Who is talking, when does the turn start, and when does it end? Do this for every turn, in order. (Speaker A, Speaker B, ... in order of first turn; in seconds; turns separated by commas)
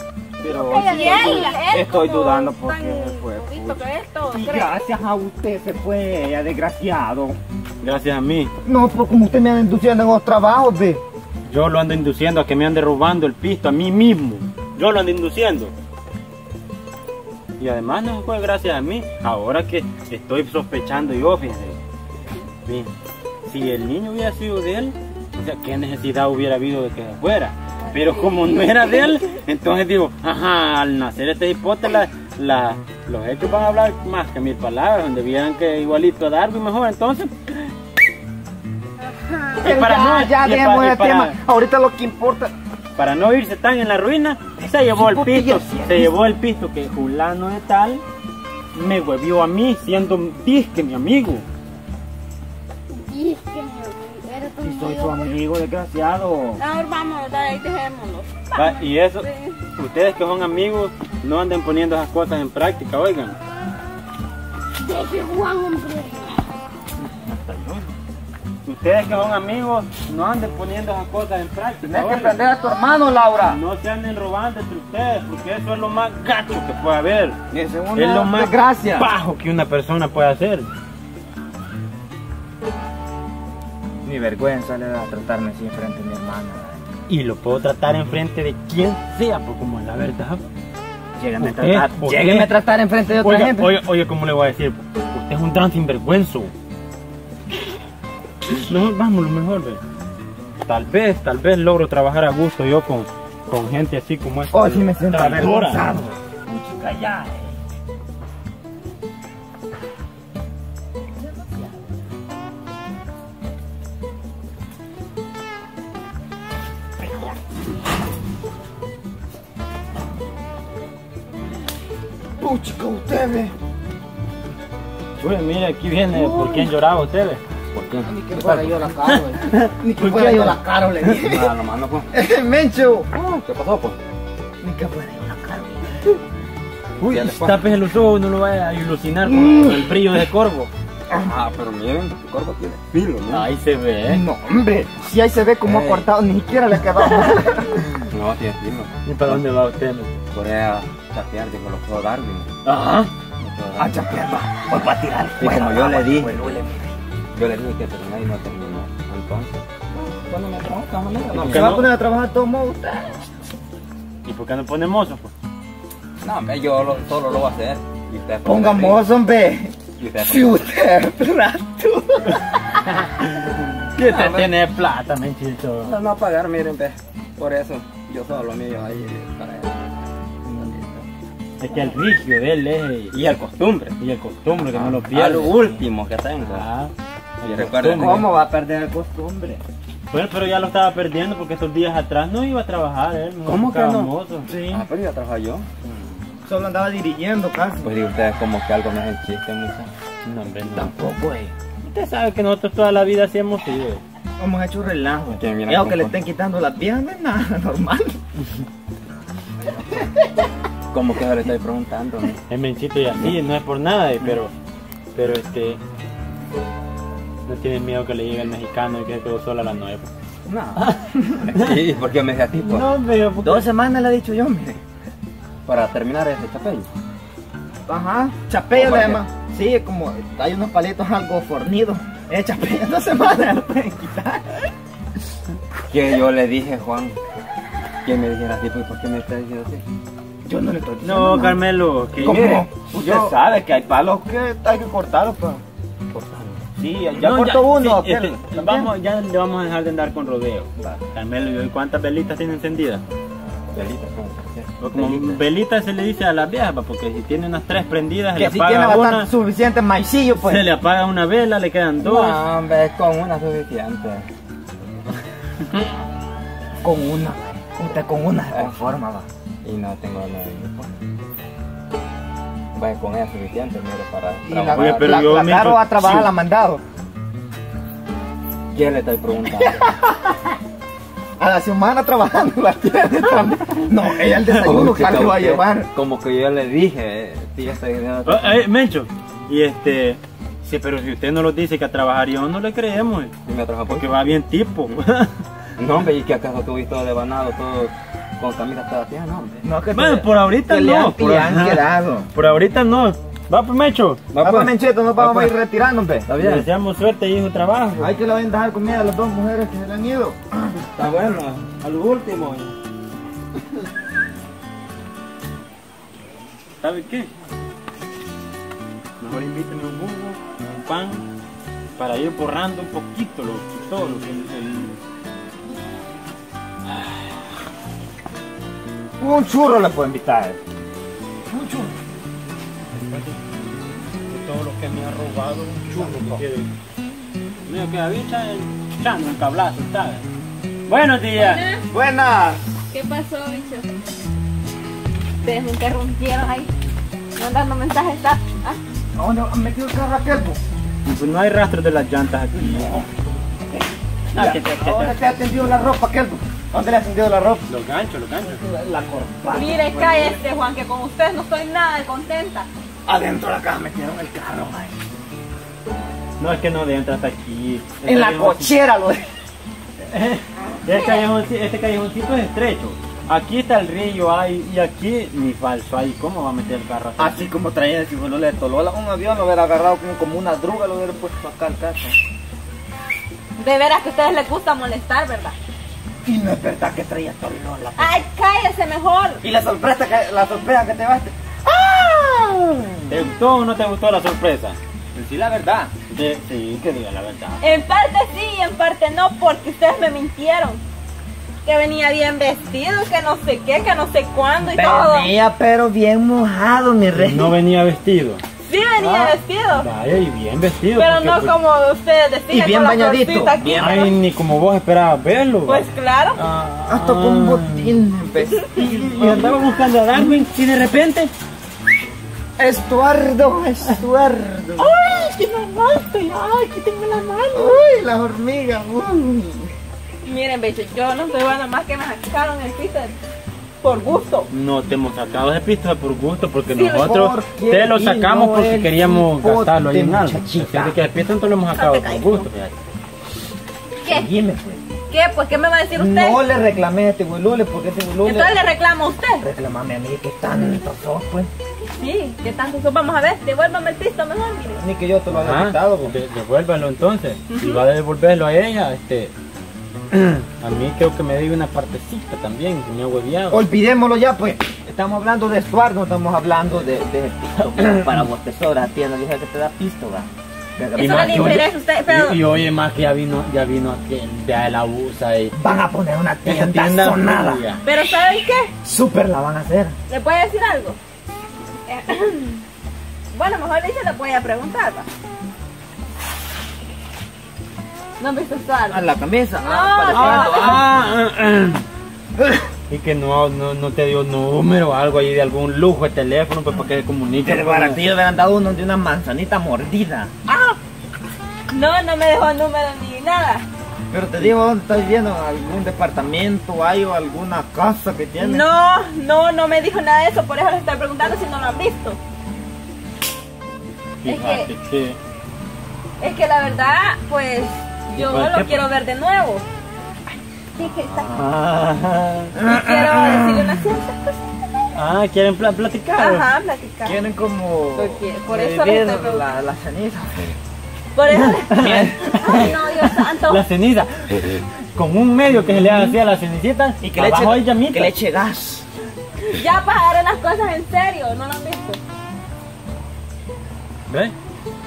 Speaker A: 0.4-7.4, Speaker B: 0.7-1.6, Speaker C: 0.7-4.7, Speaker D: 7.8-8.5, Speaker A: 8.6-11.0, Speaker D: 11.4-15.7, Speaker D: 17.6-21.8, Speaker D: 22.6-22.9, Speaker D: 23.5-37.7, Speaker B: 39.0-39.5, Speaker D: 39.6-41.4, Speaker A: 39.6-42.5, Speaker D: 43.0-48.0, Speaker A: 44.6-46.1, Speaker D: 48.7-51.4, Speaker B: 52.9-55.3, Speaker A: 54.6-56.6, Speaker C: 56.6-59.6, Speaker D: 58.5-63.4, Speaker B: 64.8-66.4, Speaker D: 68.6-72.4, Speaker A: 71.8-73.6, Speaker D: 73.4-77.4, Speaker A: 77.5-79.1, Speaker D: 77.9-80.7, Speaker A: 84.0-86.9, Speaker D: 87.1-90.4, Speaker A: 91.2-93.7, Speaker D: 91.4-92.5, Speaker D: 93.2-96.5, Speaker D: 98.6-99.8, Speaker D: 100.6-105.8, Speaker A: 104.5-107.5, Speaker A: 111.4-111.7, Speaker A: 122.4-123.5, Speaker D: 125.2-127.4, Speaker A: 126.1-126.7, Speaker E: 127.7-128.8, Speaker A: 128.0-131.6, Speaker D: 129.1-130.5, Speaker E: 130.0-130.4, Speaker E: 131.0-132.1, Speaker A: 132.1-133.1, Speaker E: 133.1-134.0, Speaker A: 134.6-136.0, Speaker D: 137.0-140.7, Speaker E: 137.0-137.7, Speaker E: 141.1-143.4, Speaker D: 143.2-144.2, Speaker A: 144.1-147.9, Speaker E: 145.6-146.1, Speaker E: 148.1-149.5, Speaker D: 149.0-150.2, Speaker E: 150.3-152.5, Speaker D: 152.6-153.1, Speaker E: 153.4-154.0, Speaker A: 153.8-156.9, Speaker E: 155.4-156.3, Speaker E: 157.3-161.8, Speaker D: 161.3-161.9, Speaker A: 161.5-163.2, Speaker D: 164.2-165.3, Speaker E: 166.2-169.1, Speaker A: 168.4-169.7, Speaker E: 170.0-170.5, Speaker A: 170.3-172.4, Speaker D: 173.0-175.9, Speaker E: 174.0-174.5, Speaker E: 175.8-179.8, Speaker E: 180.4-181.1, Speaker D: 181.6-183.2, Speaker E: 183.1-184.0, Speaker D: 184.0-185.8, Speaker E: 184.5-186.7, Speaker D: 186.4-188.2, Speaker E: 187.4-188.3, Speaker A: 187.9-189.6, Speaker D: 190.1-194.5, Speaker E: 193.4-195.7, Speaker A: 194.4-194.8, Speaker A: 196.4-197.9, Speaker E: 197.8-199.9, Speaker D: 200.2-200.9, Speaker A: 200.7-201.5, Speaker D: 201.8-204.0, Speaker A: 204.4-208.2, Speaker E: 205.3-206.2, Speaker E: 210.9-212.4, Speaker D: 212.5-214.5, Speaker D: 215.1-215.8, Speaker D: 217.4-220.1, Speaker E: 220.5-220.9, Speaker D: 220.8-221.0, Speaker E: 221.4-222.9, Speaker D: 222.6-223.7, Speaker A: 223.4-224.8, Speaker E: 225.7-226.9, Speaker A: 227.9-234.7, Speaker E: 228.7-229.2, Speaker E: 235.9-237.2, Speaker E: 238.0-239.8, Speaker A: 240.4-241.6, Speaker D: 241.0-243.3, Speaker A: 242.2-245.6, Speaker E: 246.1-246.6, Speaker A: 246.8-248.9, Speaker D: 247.2-253.0, Speaker E: 253.7-255.4, Speaker D: 254.8-259.3, Speaker A: 258.4-260.6, Speaker D: 260.4-262.4, Speaker E: 262.0-264.3, Speaker A: 266.8-269.3, Speaker E: 268.5-268.8, Speaker E: 269.6-270.9, Speaker E: 272.7-275.1, Speaker A: 274.4-276.8, Speaker D: 274.7-276.3, Speaker E: 278.7-279.8, Speaker A: 279.5-280.4, Speaker A: 281.4-285.9, Speaker E: 284.4-288.6, Speaker D: 288.2-293.3, Speaker E: 293.4-294.2, Speaker D: 293.9-295.3, Speaker E: 295.8-299.6, Speaker A: 299.6-302.3, Speaker D: 299.9-304.2, Speaker E: 304.3-305.6, Speaker A: 304.4-306.3, Speaker E: 306.2-306.7, Speaker D: 306.4-308.1, Speaker A: 308.0-310.4, Speaker E: 310.9-311.7, Speaker D: 311.8-312.7, Speaker D: 316.8-317.3, Speaker D: 319.2-321.2, Speaker D: 322.0-325.0, Speaker A: 329.2-330.6, Speaker A: 331.5-331.9, Speaker D: 332.9-333.6, Speaker D: 334.3-336.7, Speaker A: 335.9-336.4, Speaker D: 337.6-340.2, Speaker D: 340.9-341.6, Speaker C: 341.4-341.9, Speaker A: 341.9-342.6, Speaker C: 342.9-343.9, Speaker C: 345.4-346.7, Speaker C: 347.4-348.8, Speaker A: 349.1-350.6, Speaker D: 351.1-352.9, Speaker A: 352.6-353.1, Speaker D: 354.3-355.1, Speaker A: 354.3-357.6, Speaker D: 357.7-358.6, Speaker A: 358.4-360.4, Speaker C: 359.5-362.7, Speaker A: 363.1-364.9, Speaker D: 366.4-368.7, Speaker A: 368.0-369.2, Speaker D: 370.1-377.4, Speaker C: 370.9-371.2, Speaker A: 377.2-382.1, Speaker C: 383.6-385.6, Speaker A: 386.2-388.2, Speaker C: 388.0-389.4, Speaker A: 389.4-393.3, Speaker D: 393.1-394.8, Speaker A: 395.1-395.9, Speaker D: 396.1-397.6, Speaker C: 397.6-400.8, Speaker C: 401.6-405.3, Speaker A: 404.6-407.6, Speaker D: 407.1-408.4, Speaker C: 408.6-409.9, Speaker D: 409.0-411.5, Speaker C: 410.9-414.1, Speaker A: 412.5-413.9, Speaker D: 413.7-415.8, Speaker C: 415.7-416.4, Speaker D: 416.4-417.9, Speaker A: 416.9-419.6, Speaker D: 418.7-421.3, Speaker A: 422.6-425.3, Speaker D: 424.8-427.8, Speaker A: 427.5-429.7, Speaker C: 430.2-433.1, Speaker C: 433.8-434.5, Speaker D: 434.5-442.8, Speaker C: 436.7-437.1, Speaker A: 436.9-441.0, Speaker C: 441.7-442.5, Speaker C: 444.0-444.3, Speaker A: 444.1-444.8, Speaker C: 445.1-446.4, Speaker A: 445.9-448.5, Speaker C: 448.2-449.4, Speaker A: 449.4-451.5, Speaker C: 452.0-454.8, Speaker A: 454.7-456.1, Speaker D: 455.3-459.3, Speaker C: 457.5-457.8, Speaker D: 460.1-463.6, Speaker A: 463.5-471.6, Speaker C: 470.9-472.4, Speaker D: 470.9-475.5, Speaker A: 475.6-477.6, Speaker D: 476.4-477.8, Speaker C: 477.8-478.7, Speaker A: 478.8-479.9, Speaker C: 480.1-481.0, Speaker C: 481.9-482.6, Speaker C: 483.3-485.1, Speaker C: 488.2-489.1, Speaker A: 488.9-490.9, Speaker C: 489.6-490.8, Speaker D: 490.1-491.8, Speaker D: 492.9-498.0, Speaker A: 497.4-500.3, Speaker C: 500.4-500.8, Speaker C: 501.7-503.6, Speaker A: 504.1-508.6, Speaker C: 508.4-512.2, Speaker D: 514.2-515.2, Speaker C: 514.2-514.7, Speaker C: 516.2-519.6, Speaker D: 518.1-518.8, Speaker C: 520.7-521.3, Speaker D: 521.2-522.5, Speaker A: 522.5-524.0, Speaker C: 522.6-524.3, Speaker D: 524.9-526.4, Speaker C: 526.1-527.2, Speaker A: 527.0-530.5, Speaker C: 527.9-529.5, Speaker C: 531.1-531.7, Speaker D: 531.4-538.1, Speaker A: 531.6-532.7, Speaker C: 532.3-533.6, Speaker C: 535.8-536.1, Speaker A: 537.0-538.9, Speaker C: 539.5-542.0, Speaker D: 544.1-544.3